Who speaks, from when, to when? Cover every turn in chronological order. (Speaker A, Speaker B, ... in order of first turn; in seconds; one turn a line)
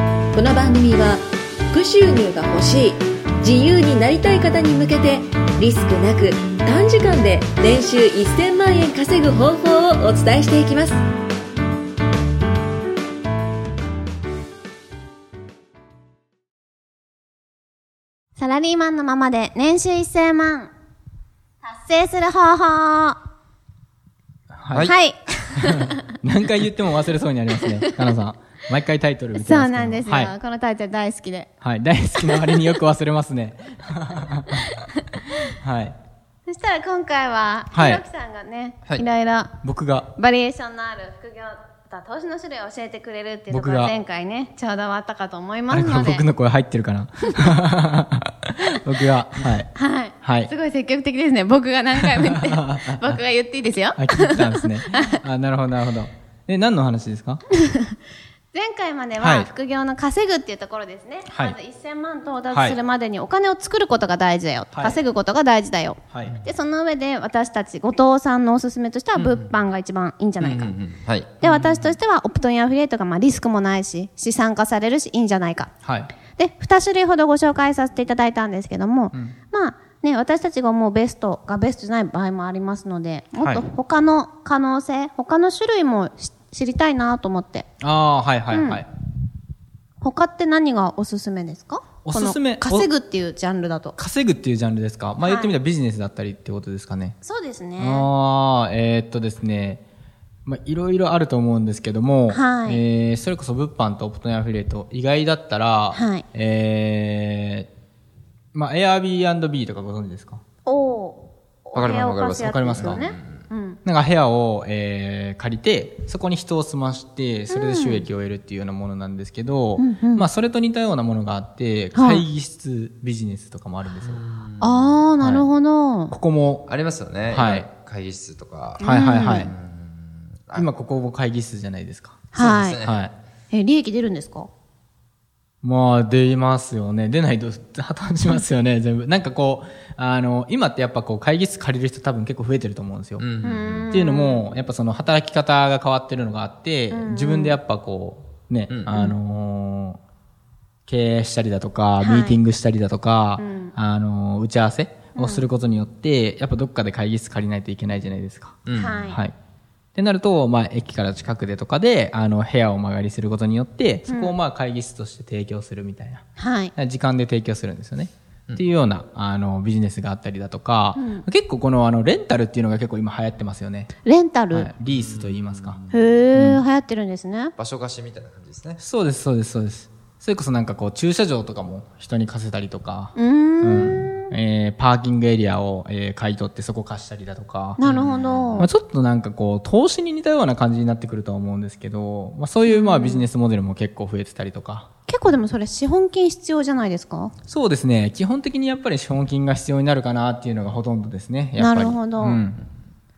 Speaker A: 0.3-11.0
Speaker B: 18.4-20.7
Speaker B: 21.6-23.2
Speaker C: 24.5-24.9
Speaker B: 24.8-26.1
Speaker C: 25.6-30.3
Speaker B: 27.6-28.0
Speaker B: 29.3-31.5
Speaker C: 31.6-34.5
Speaker B: 32.2-32.7
Speaker B: 34.6-35.5
Speaker C: 35.6-36.0
Speaker B: 36.5-39.5
Speaker C: 37.7-38.0
Speaker C: 39.6-40.1
Speaker B: 40.1-46.3
Speaker C: 43.5-44.0
Speaker C: 45.7-50.5
Speaker B: 47.2-47.5
Speaker B: 49.7-55.2
Speaker C: 52.0-53.2
Speaker C: 54.0-57.4
Speaker B: 57.5-58.0
Speaker B: 58.5-70.7
Speaker C: 59.2-59.5
Speaker C: 61.3-61.6
Speaker C: 62.5-62.8
Speaker C: 64.7-65.0
Speaker C: 66.1-66.4
Speaker D: 69.1-69.6
Speaker D: 70.4-71.4
Speaker B: 71.4-75.7
Speaker C: 71.4-72.0
Speaker C: 75.8-76.1
Speaker B: 76.3-87.7
Speaker C: 83.4-83.6
Speaker C: 87.8-88.9
Speaker B: 88.5-88.8
Speaker B: 90.0-94.0
Speaker C: 92.0-92.9
Speaker C: 94.0-97.2
Speaker B: 95.2-95.5
Speaker B: 97.2-98.1
Speaker C: 97.8-99.8
Speaker C: 100.5-107.7
Speaker B: 102.3-102.8
Speaker B: 105.9-106.2
Speaker C: 108.5-110.4
Speaker B: 110.7-113.8
Speaker D: 111.7-113.4
Speaker C: 112.4-113.0
Speaker C: 113.8-124.2
Speaker B: 117.5-118.0
Speaker B: 119.8-120.3
Speaker B: 121.9-122.2
Speaker D: 123.8-125.0
Speaker B: 124.6-126.2
Speaker C: 125.2-125.5
Speaker C: 126.1-126.7
Speaker D: 126.7-130.7
Speaker C: 127.3-127.7
Speaker B: 128.8-129.5
Speaker C: 128.8-129.5
Speaker C: 130.5-133.1
Speaker B: 132.3-132.8
Speaker D: 132.3-133.0
Speaker B: 133.5-134.5
Speaker C: 135.6-143.3
Speaker D: 143.2-143.9
Speaker B: 143.4-144.4
Speaker C: 143.9-150.0
Speaker B: 146.9-147.6
Speaker C: 150.9-159.3
Speaker B: 152.0-152.4
Speaker B: 153.4-153.7
Speaker B: 155.2-155.4
Speaker D: 158.7-159.1
Speaker B: 158.8-159.2
Speaker C: 159.9-166.2
Speaker B: 164.1-164.3
Speaker B: 166.4-166.7
Speaker C: 166.8-173.9
Speaker B: 170.9-171.2
Speaker B: 174.0-174.7
Speaker C: 174.5-175.8
Speaker D: 174.8-176.0
Speaker B: 175.9-177.5
Speaker C: 176.3-176.6
Speaker D: 177.6-178.8
Speaker C: 178.8-187.8
Speaker B: 183.1-184.3
Speaker B: 187.8-188.7
Speaker D: 187.8-188.7
Speaker C: 188.6-194.9
Speaker B: 192.7-193.2
Speaker B: 195.1-197.3
Speaker C: 197.5-202.6
Speaker B: 201.6-202.4